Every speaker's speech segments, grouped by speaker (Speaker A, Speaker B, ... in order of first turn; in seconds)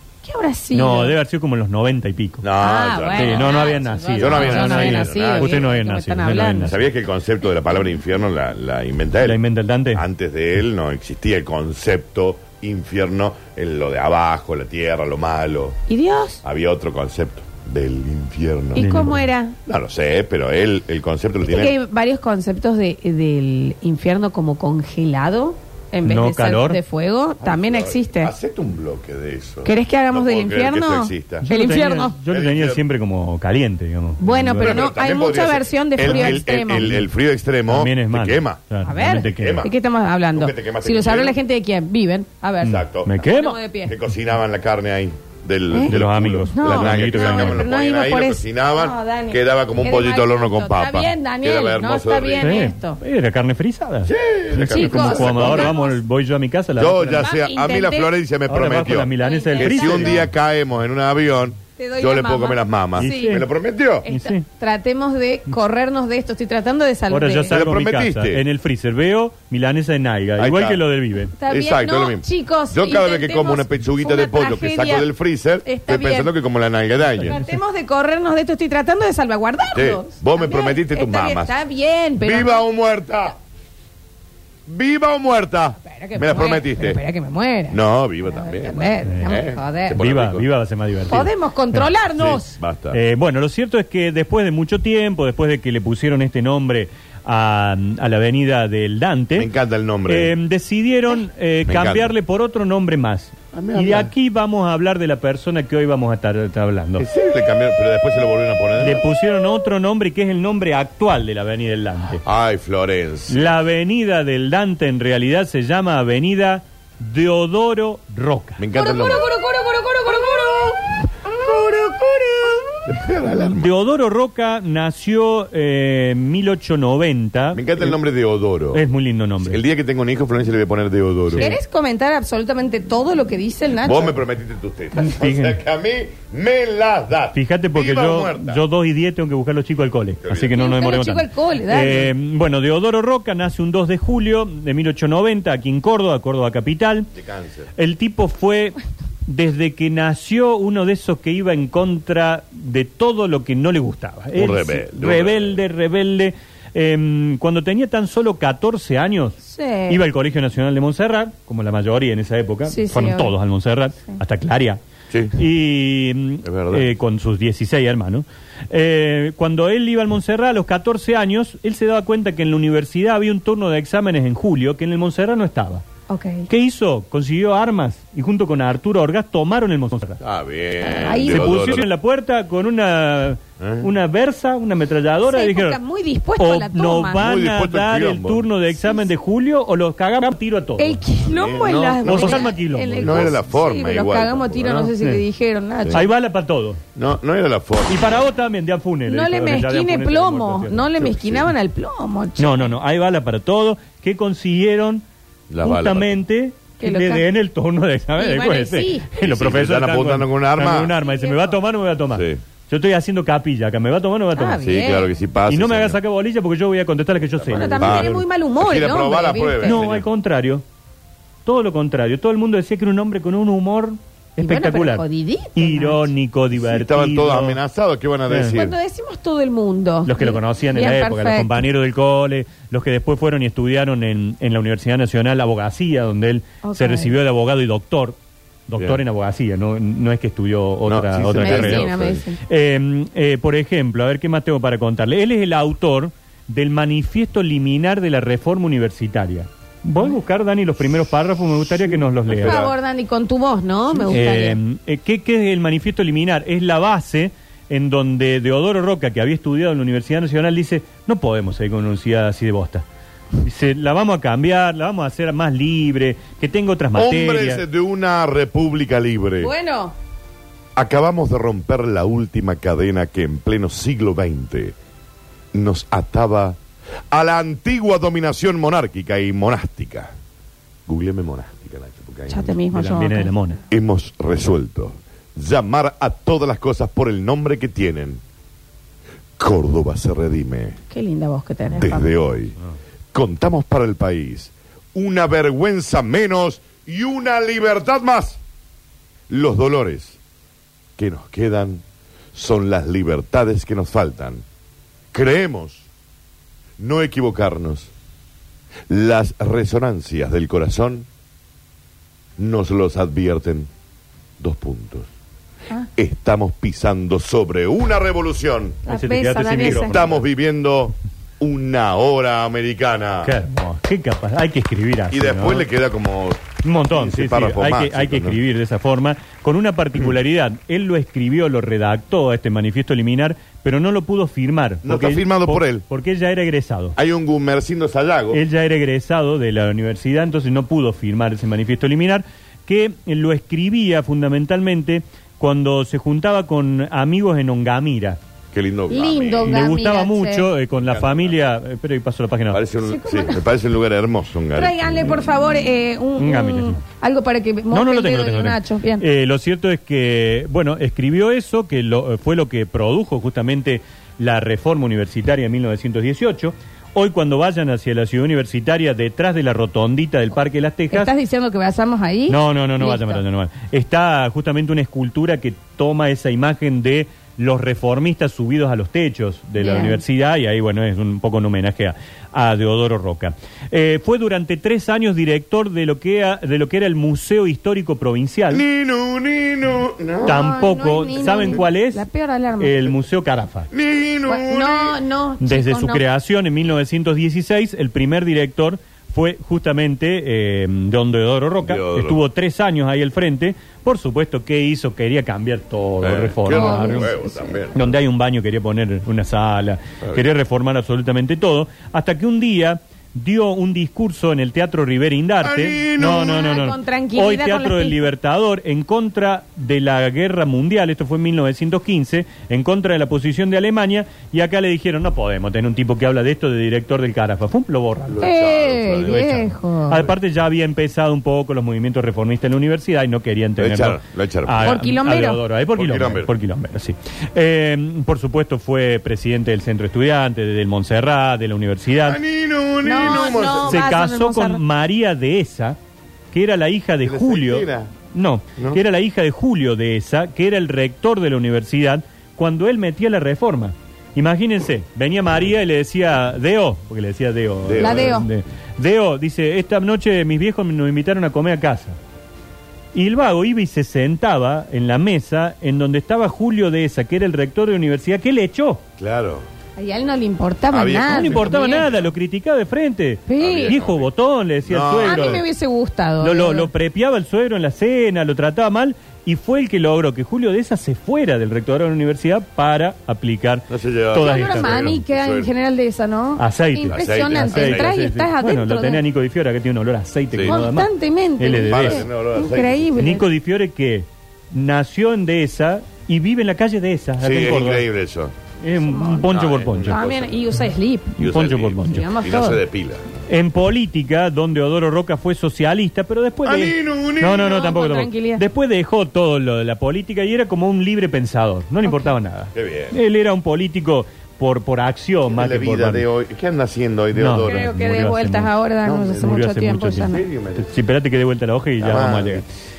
Speaker A: 0.2-1.2, 2.6-6.7, 15.9-16.4, 18.8-19.6, 21.4-28.3, 29.6-32.1, 34.2-37.0, 38.9-44.0, 46.5-53.0, 54.7-56.0, 57.2-58.1, 59.2-60.2, 61.8-63.4, 64.0-67.6, 71.4-75.1, 75.7-76.3, 77.2-82.6, 85.9-90.0, 91.1-92.5, 118.7-122.9, 131.4-134.2, 140.5-142.1, 159.4-160.0, 162.7-163.3, 176.1-176.5, 180.8-181.7, 185.2-187.2, 190.8-196.1, 199.1-202.7, 206.8-207.3, 208.2-209.1, 211.0-211.6, 214.3-215.1, 217.5-219.8, 224.4-226.1, 228.5-231.6, 236.6-237.1, 241.3-242.4, 252.3-254.6, 269.4-269.9, 282.3-283.3, 290.9-292.1, 318.9-320.0, 348.9-350.5, 352.9-353.4, 354.6-359.1, 370.9-373.2, 379.6-380.0, 390.2-392.9, 394.3-396.0, 406.5-407.6, 416.0-418.0, 428.2-430.0, 434.6-435.4, 442.8-444.6, 457.8-458.3, 469.8-471.9, 473.3-473.8, 475.0-476.7, 484.1-489.0, 490.4-493.3, 498.8-499.3, 499.9-501.2, 501.8-502.6, 507.3-508.4, 517.4-520.2
Speaker B: 0.7-2.5, 3.1-6.9, 9.2-10.0, 18.8-19.2, 26.1-26.8, 31.4-34.8, 36.0-37.0, 37.7-39.6, 43.0-43.6, 45.9-47.6, 52.4-57.3, 58.5-60.2, 63.0-63.5, 64.1-64.5, 67.1-71.3, 89.0-89.3, 90.0-92.4, 92.9-99.5, 100.1-107.1, 108.8-112.2, 113.3-118.6, 123.5-128.0, 128.7-129.6, 131.3-131.6, 135.0-135.6, 137.3-147.1, 147.8-164.8, 165.3-175.8, 176.5-180.2, 181.2-185.8, 186.4-191.0, 192.0-193.4, 195.9-196.8, 197.9-200.9, 202.4-205.1, 205.6-214.6, 215.5-218.2, 219.7-220.6, 221.5-225.0, 225.6-227.6, 228.3-228.6, 230.1-238.2, 238.7-252.7, 254.1-262.8, 263.4-267.6, 282.7-283.6, 318.9-320.2, 323.2-325.7, 326.6-337.0, 338.3-348.2, 349.4-352.6, 356.2-356.8, 357.7-371.1, 372.3-388.6, 390.3-392.1, 392.6-393.7, 395.4-407.1, 407.7-428.3, 429.1-442.2, 443.6-445.8, 446.3-462.0, 462.9-468.8, 471.1-475.4, 476.2-485.0, 486.4-492.1, 493.0-497.9, 498.6-500.0, 501.2-502.1, 503.3-516.0, 517.1-518.5, 519.2-522.5
Speaker C: 2.4-5.7, 6.6-9.4, 9.9-15.8, 16.4-18.9, 19.7-21.8, 27.4-31.5, 32.3-32.8, 34.6-38.6, 39.3-39.7, 40.3-41.4, 42.6-43.1, 43.9-52.6, 54.0-55.8, 56.8-64.1, 67.5-68.4, 70.4-70.8, 71.5-77.4, 79.7-81.5, 82.2-83.4, 84.7-87.0, 87.7-90.5, 92.2-93.0, 99.3-100.3, 101.7-102.1, 103.5-104.1, 107.0-109.0, 112.2-113.5, 118.6-119.3, 122.9-123.7, 127.5-128.8, 129.4-131.6, 133.8-138.6, 140.2-140.6, 147.2-147.7, 154.3-155.6, 165.1-165.4, 166.4-166.9, 180.2-181.9, 183.6-183.9, 187.2-188.5, 191.2-194.9, 196.9-198.2, 201.0-201.5, 205.5-206.2, 209.2-210.9, 212.1-212.4, 214.6-216.0, 217.3-220.1, 226.6-228.8, 240.8-242.2, 251.8-252.7, 266.9-269.5, 270.8-274.8, 275.5-276.6, 277.1-280.1, 280.9-282.6, 283.7-288.2, 289.4-290.8, 291.8-292.6, 293.1-298.4, 299.3-300.2, 301.0-304.4, 305.1-305.9, 306.8-307.9, 308.9-311.1, 312.4-313.7, 314.4-315.1, 316.0-318.8, 319.6-323.3, 325.1-328.4, 334.8-335.8, 337.0-338.4, 348.5-349.7, 350.7-351.4, 352.5-355.2, 388.5-390.4, 393.7-395.0, 401.6-402.2, 406.0-407.9, 415.4-416.5, 428.1-429.4, 433.6-434.8, 435.8-436.3, 442.0-443.9, 447.0-447.9, 457.6-458.3, 469.0-469.4, 470.7-472.1, 473.4-474.1, 474.7-475.4, 483.7-485.5, 486.9-487.9, 490.3-490.6, 491.7-493.0, 497.2-498.3, 499.2-500.4, 501.2-503.1, 506.4-507.6, 512.5-513.0, 515.3-517.7, 518.8-519.4, 520.0-520.7, 521.8-522.4